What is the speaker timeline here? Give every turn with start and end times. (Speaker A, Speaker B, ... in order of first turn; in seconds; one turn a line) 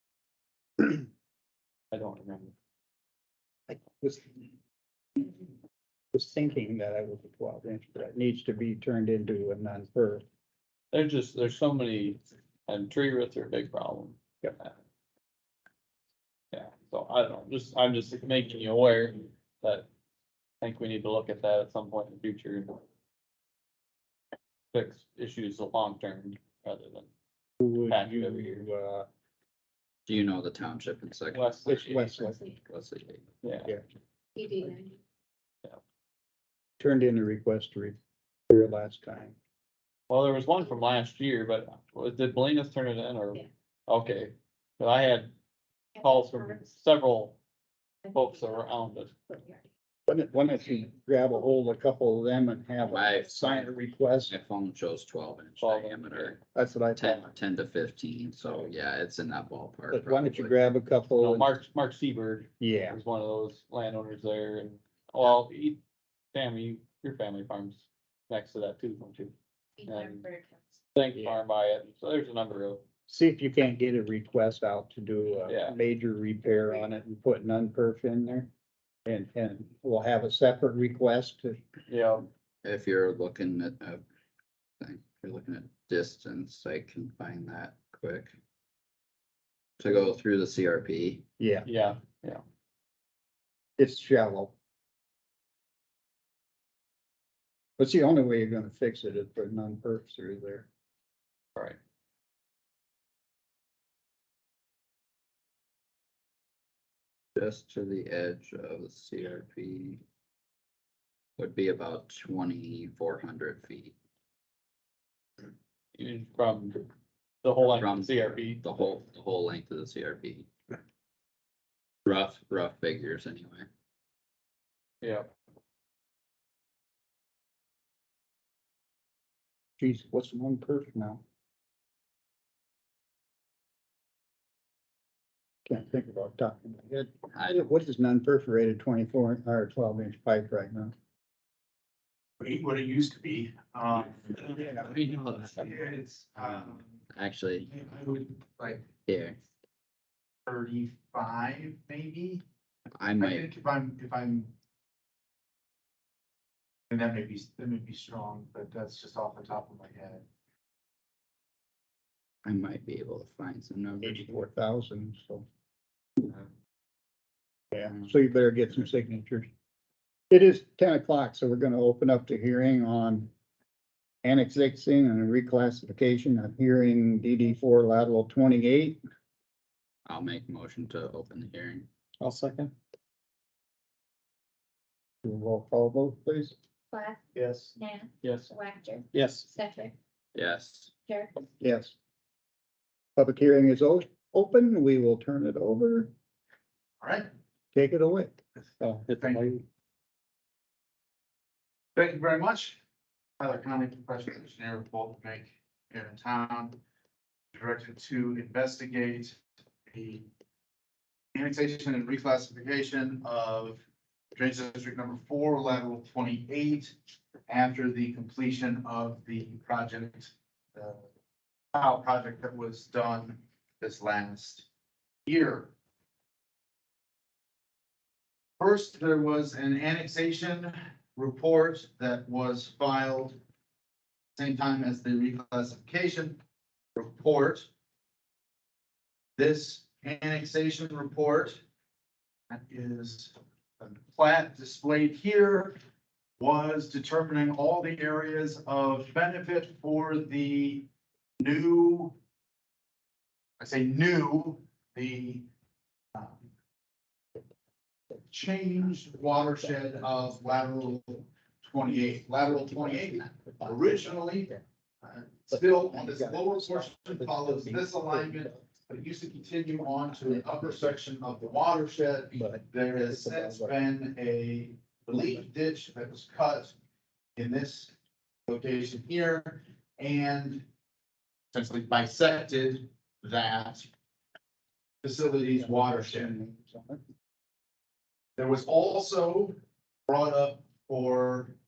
Speaker A: 1.9-2.5
Speaker B: 3.7-4.4
Speaker B: 6.1-10.2
Speaker A: 10.9-14.7
Speaker A: 16.5-19.9
Speaker A: 20.6-22.8
Speaker A: 24.7-27.1
Speaker B: 27.6-29.1
Speaker A: 27.9-28.7
Speaker C: 30.1-31.6
Speaker A: 31.3-32.3
Speaker B: 31.6-32.4
Speaker C: 32.5-33.2
Speaker A: 33.4-33.7
Speaker D: 34.3-35.0
Speaker B: 36.8-38.0
Speaker B: 38.5-39.4
Speaker A: 40.1-45.3
Speaker A: 46.0-47.4
Speaker D: 46.0-46.7
Speaker A: 48.1-49.1
Speaker D: 49.3-49.6
Speaker B: 50.1-54.3
Speaker C: 52.8-53.7
Speaker C: 54.3-56.4
Speaker A: 55.6-56.4
Speaker B: 56.5-57.3
Speaker C: 57.0-60.5
Speaker B: 59.9-61.5
Speaker A: 61.1-65.8
Speaker B: 62.6-63.0
Speaker A: 66.3-69.3
Speaker D: 69.8-70.8
Speaker A: 69.8-70.2
Speaker A: 70.9-72.8
Speaker B: 73.1-78.5
Speaker A: 75.5-75.8
Speaker B: 79.0-81.6
Speaker A: 81.9-82.3
Speaker C: 82.6-84.0
Speaker C: 84.8-88.3
Speaker C: 89.8-91.2
Speaker B: 91.4-91.7
Speaker A: 91.6-92.4
Speaker B: 93.8-94.5
Speaker B: 97.8-100.7
Speaker C: 107.3-110.0
Speaker C: 111.4-113.9
Speaker A: 115.9-116.8
Speaker A: 117.4-118.6
Speaker C: 117.6-120.5
Speaker C: 122.0-123.7
Speaker A: 125.0-125.3
Speaker B: 129.8-131.2
Speaker B: 135.7-140.9
Speaker C: 137.3-137.6
Speaker E: 142.4-144.8
Speaker C: 144.4-147.7
Speaker E: 145.6-147.0
Speaker E: 147.7-148.8
Speaker C: 149.1-149.4
Speaker E: 150.5-152.4
Speaker C: 152.9-153.5
Speaker E: 153.2-154.5
Speaker E: 156.9-160.2
Speaker C: 162.4-164.4
Speaker B: 164.0-165.4
Speaker B: 167.7-169.5
Speaker B: 170.3-173.3
Speaker B: 174.2-179.0
Speaker C: 180.0-181.9
Speaker A: 182.2-182.7
Speaker B: 185.2-186.5
Speaker D: 186.9-187.2
Speaker E: 187.3-187.7
Speaker D: 187.8-189.9
Speaker A: 188.2-188.5
Speaker A: 189.1-189.5
Speaker C: 190.3-190.9
Speaker D: 191.1-191.3
Speaker B: 191.6-191.9
Speaker B: 193.2-196.1
Speaker E: 197.0-197.3
Speaker B: 197.7-199.0
Speaker A: 199.0-199.6
Speaker E: 199.1-199.5
Speaker E: 201.9-202.8
Speaker E: 203.4-206.8
Speaker E: 207.5-210.3
Speaker E: 211.3-213.8
Speaker E: 214.3-216.9
Speaker E: 217.5-221.1
Speaker E: 221.7-224.7
Speaker E: 225.2-225.7
Speaker E: 228.6-233.4
Speaker E: 234.3-236.4
Speaker E: 236.9-237.7
Speaker E: 239.3-241.6
Speaker E: 242.5-245.7
Speaker E: 246.4-250.9
Speaker E: 251.4-252.2
Speaker E: 253.6-255.5
Speaker E: 256.1-256.4
Speaker E: 258.3-276.8
Speaker B: 265.5-268.6
Speaker B: 270.3-270.6
Speaker B: 272.4-273.7
Speaker E: 277.4-277.9
Speaker E: 278.5-280.6
Speaker E: 281.5-283.9
Speaker E: 285.0-286.3
Speaker B: 285.6-287.0
Speaker E: 288.4-289.5
Speaker E: 290.1-291.5